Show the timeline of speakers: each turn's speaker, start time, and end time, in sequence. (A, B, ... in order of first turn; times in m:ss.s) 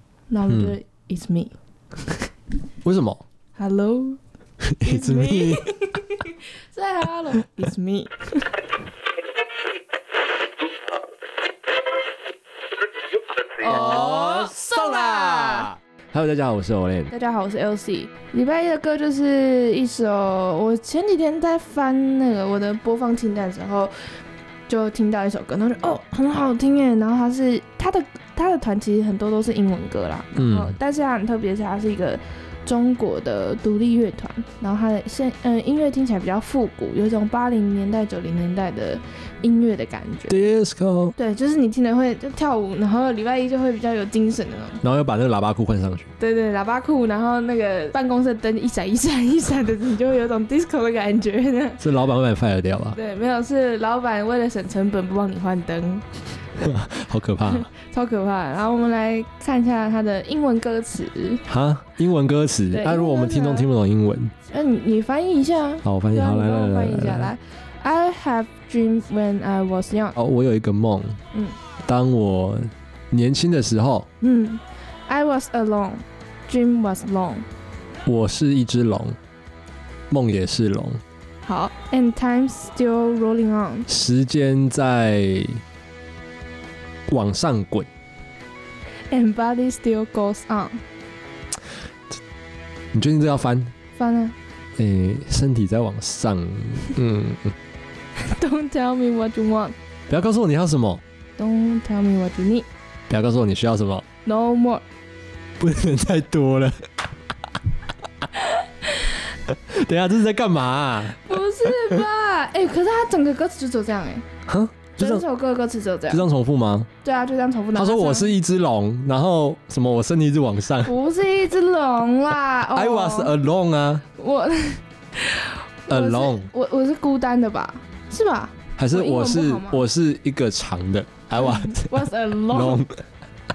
0:00.3-0:02.3 A
0:00.5-0:00.8 B
0:02.8-0:03.2 B
0:03.6-0:04.2 A
0:04.6-0:05.7 B
0:04.8-0:08.6 A
0:13.6-0:15.7 A
0:13.6-0:17.1 B
0:17.1-0:23.9 A
0:24.7-0:40.5 A
0:30.4-0:30.8 B
0:40.3-0:41.1 B
0:41.2-0:44.8 A
0:44.8-0:46.1 B
0:46.2-0:51.8 A
0:51.8-0:53.0 B
0:52.9-0:56.2 A
0:56.6-0:57.7 B
0:57.5-1:01.4 A
1:01.5-1:04.3 B
1:02.7-1:03.7 A
1:04.5-1:10.2 A
1:05.8-1:07.3 B
1:10.2-1:11.2 B
1:11.8-1:14.1 B
1:14.2-1:17.4 A
1:18.0-1:19.2 B
1:20.1-1:21.0 B
1:21.4-1:23.9 A
1:23.9-1:25.6 B
1:27.1-1:27.9 B
1:29.1-1:30.8 A
1:32.9-1:33.7 B
1:34.0-1:34.3 A
1:34.8-1:37.5 B
1:38.2-1:39.7 A
1:40.1-1:41.0 B
1:41.4-1:42.7 A
1:43.1-1:44.0 B
1:44.2-1:44.8 A
1:45.6-1:46.7 B
1:49.5-1:52.0 B
1:51.2-1:54.2 A
1:54.5-1:55.2 B
1:55.0-1:56.2 A
1:56.1-1:56.9 B
1:57.0-1:58.3 A
1:57.7-2:00.9 B
2:00.8-2:03.3 A
2:02.7-2:04.0 B
2:04.1-2:09.8 A
2:05.9-2:06.5 B
2:08.8-2:13.0 B
2:11.4-2:12.8 A